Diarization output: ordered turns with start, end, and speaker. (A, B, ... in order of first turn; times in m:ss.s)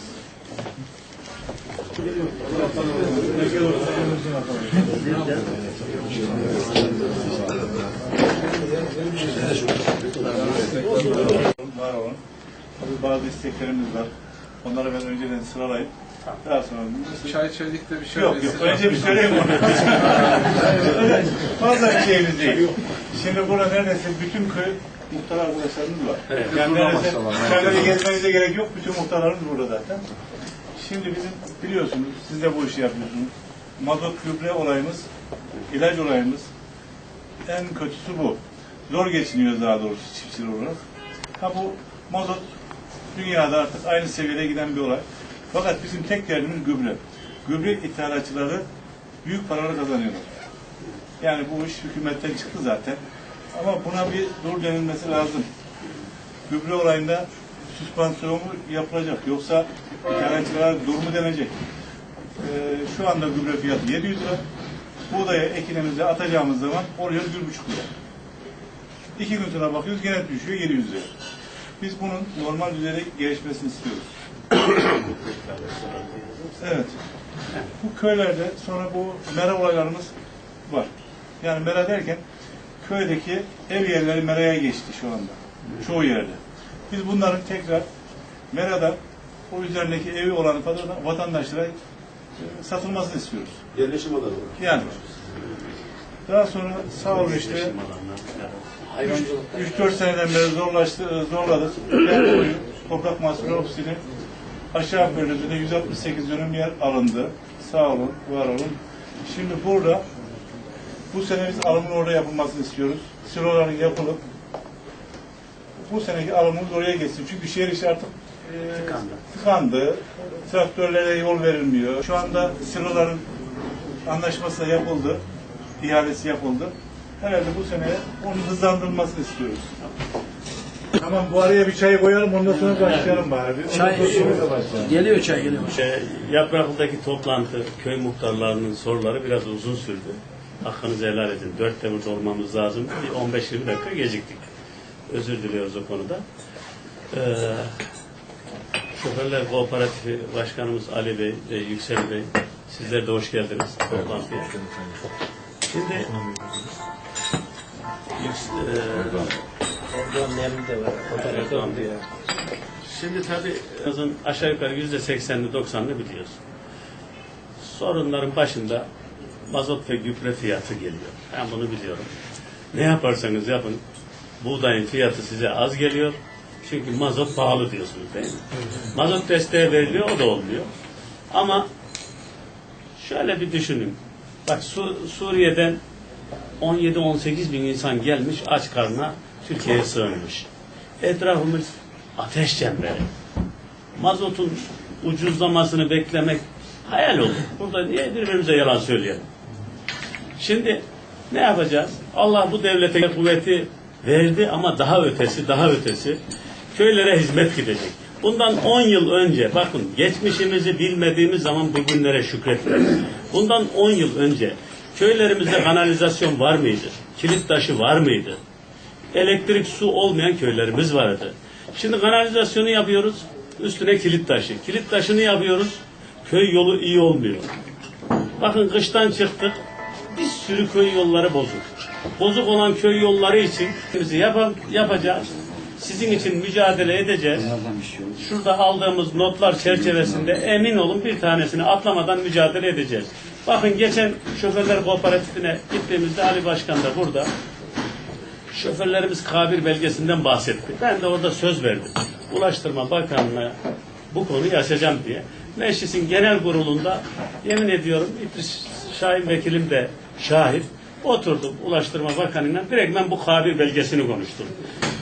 0:02.4-0:05.2 A
0:08.8-0:09.4 B
0:09.5-0:11.3 C
0:10.4-0:11.0 D
0:11.0-0:12.2 A
0:12.8-0:14.1 A
0:14.6-0:15.9 A
0:16.4-0:17.5 A
0:17.3-0:18.7 D
0:18.1-0:30.0 A
0:22.4-0:22.7 C
0:26.3-0:26.6 C
0:27.0-0:28.0 E
0:30.8-0:35.1 A
0:35.7-0:36.5 A
0:37.5-0:40.8 A
0:41.4-0:42.5 A
0:43.1-0:48.6 A
0:49.2-0:50.3 A
0:51.2-0:53.0 A
0:53.5-0:55.5 A
0:56.5-1:01.5 A
1:02.4-1:04.4 A
1:05.1-1:07.9 A
1:09.2-1:11.1 A
1:11.8-1:14.1 A
1:14.5-1:16.3 C
1:16.6-1:17.0 A
1:17.8-1:20.1 A
1:21.4-1:22.2 A
1:22.8-1:27.9 A
1:28.5-1:29.0 A
1:29.5-1:31.8 A
1:32.4-1:33.6 A
1:33.8-1:34.6 E
1:34.6-1:35.0 A
1:36.3-1:37.7 A
1:36.9-1:39.1 C
1:39.0-1:44.0 A
1:39.0-1:40.0 B
1:44.7-1:50.0 A
1:51.1-1:54.2 A
1:55.8-2:03.2 A
1:58.7-1:59.2 C
2:04.1-2:05.2 A
2:05.8-2:09.7 A
2:11.0-2:15.0 A
2:12.7-2:13.2 B
2:13.7-2:15.8 B
2:15.4-2:24.4 C
2:25.1-2:26.2 C
2:27.1-2:27.8 C
2:28.9-2:34.5 C
2:34.0-2:35.0 E
2:35.7-2:36.2 C
2:38.2-2:39.4 C
2:39.0-2:39.3 E
2:39.9-2:42.0 B
2:41.0-2:41.9 C
2:42.8-2:46.4 C
2:47.6-2:48.9 C
2:49.5-2:52.1 C
2:52.7-2:53.8 C
2:54.4-3:00.7 C
3:01.3-3:01.7 C
3:03.0-3:05.8 C
3:06.6-3:10.5 C
3:11.0-3:13.1 C
3:14.0-3:19.3 C
3:20.4-3:26.2 C
3:26.7-3:38.4 C
3:39.1-3:47.5 C
3:48.4-3:49.6 C
3:50.1-3:57.5 C
3:57.4-3:58.3 E
3:58.2-4:07.3 C
3:59.6-4:00.3 E
4:08.5-4:13.6 C
4:14.1-4:24.6 C